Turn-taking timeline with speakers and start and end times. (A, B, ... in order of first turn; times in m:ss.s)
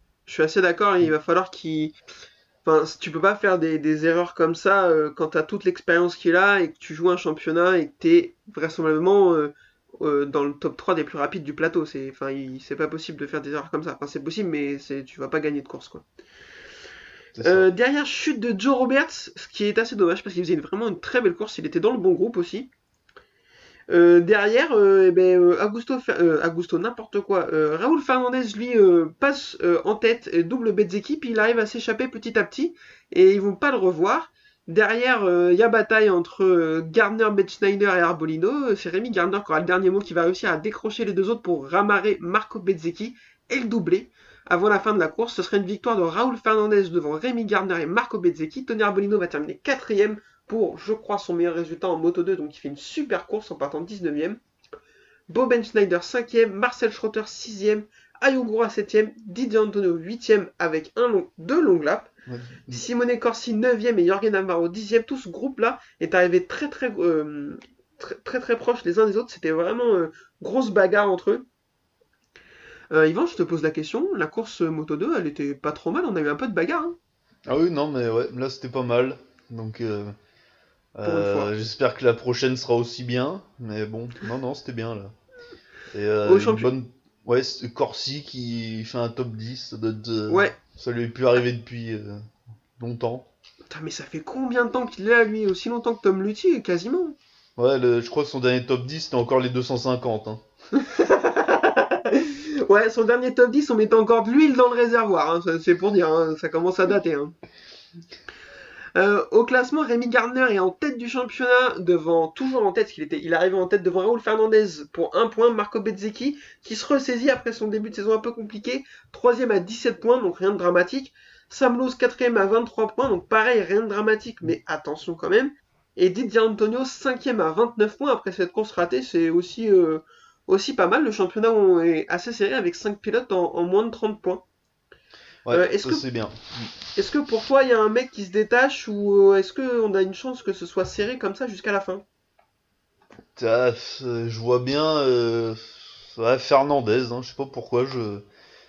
0:00.3-0:01.9 A
0:02.6-0:16.0 A
0:17.3-0:17.7 B
0:17.4-0:22.7 A
0:23.9-0:54.4 A
0:55.3-1:02.1 A
1:02.3-1:02.8 B
1:02.7-1:11.4 A
1:12.9-1:17.0 A
1:17.5-1:20.1 B
1:21.0-1:25.1 B
1:21.0-1:21.5 A
1:25.9-1:32.2 B
1:26.2-1:26.7 A
1:30.3-1:30.6 A
1:32.8-1:33.3 B
1:33.7-1:37.1 A
1:37.6-1:40.4 B
1:40.8-1:47.3 A
1:49.0-2:14.4 A
2:15.4-2:16.8 B
2:15.5-2:16.0 A
2:17.0-2:22.0 A
2:23.4-2:28.2 B